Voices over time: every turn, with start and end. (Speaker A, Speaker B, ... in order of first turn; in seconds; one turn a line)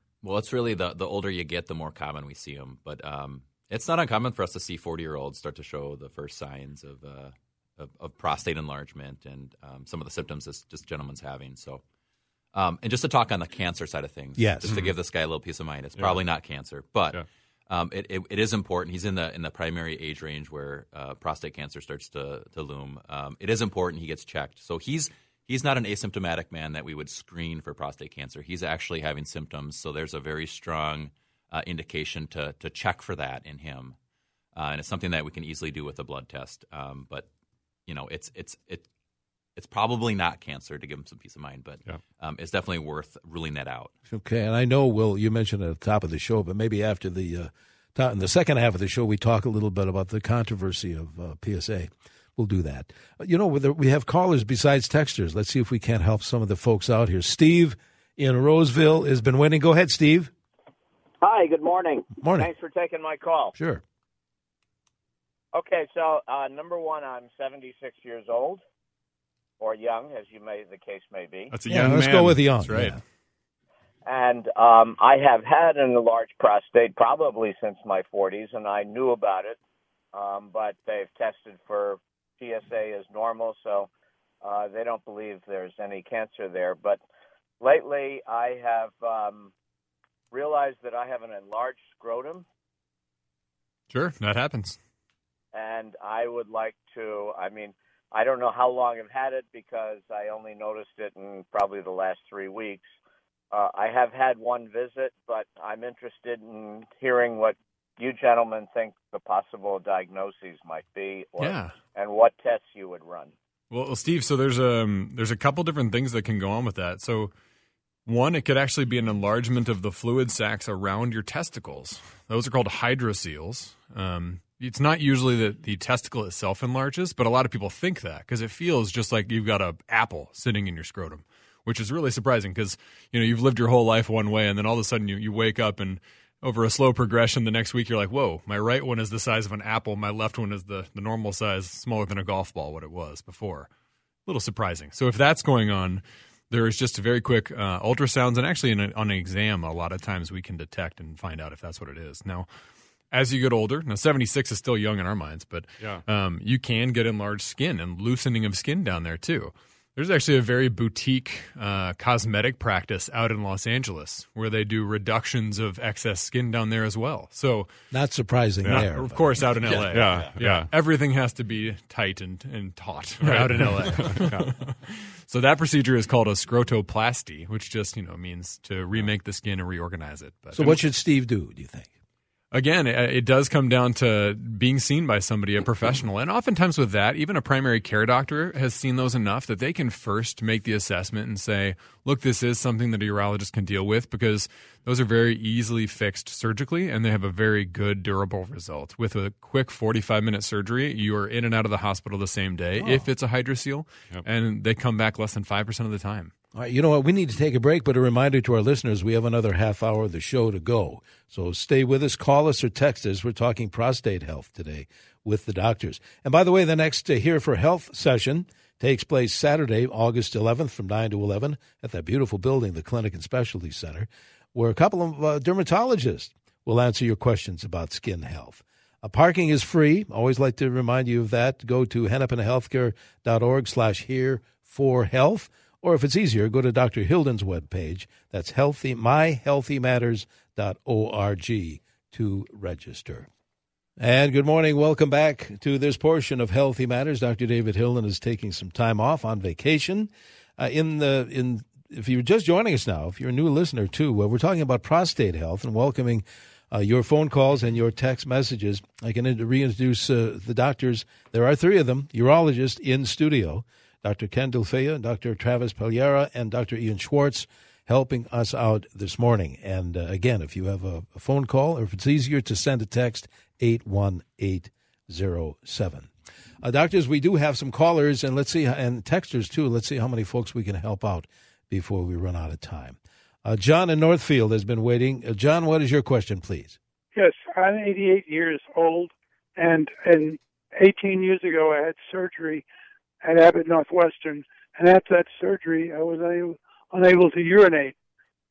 Speaker A: 0.2-11.8
Speaker A: 12.5-34.0
Speaker B: 14.4-14.8
Speaker A: 34.5-37.3
Speaker A: 37.9-38.9
Speaker A: 39.6-43.9
Speaker B: 44.1-60.3
Speaker C: 61.2-63.5
Speaker B: 62.2-62.5
Speaker B: 63.5-63.8
Speaker C: 65.5-68.6
Speaker C: 69.6-71.5
Speaker D: 71.5-72.9
Speaker B: 71.7-73.0
Speaker C: 74.1-79.6
Speaker C: 80.1-83.9
Speaker C: 84.4-87.0
Speaker C: 87.6-89.5
Speaker C: 90.3-92.4
Speaker E: 93.9-94.8
Speaker C: 95.5-102.9
Speaker C: 103.5-113.3
Speaker E: 111.4-111.7
Speaker E: 113.7-117.3
Speaker E: 118.1-143.7
Speaker E: 144.3-152.5
Speaker E: 153.1-167.7
Speaker B: 167.9-169.4
Speaker E: 168.7-180.8
Speaker D: 169.7-170.7
Speaker D: 173.2-174.5
Speaker B: 180.5-181.9
Speaker E: 182.5-206.3
Speaker B: 202.8-203.1
Speaker B: 206.5-243.3
Speaker B: 244.0-276.1
Speaker B: 276.6-286.8
Speaker F: 287.1-292.6
Speaker F: 293.2-297.9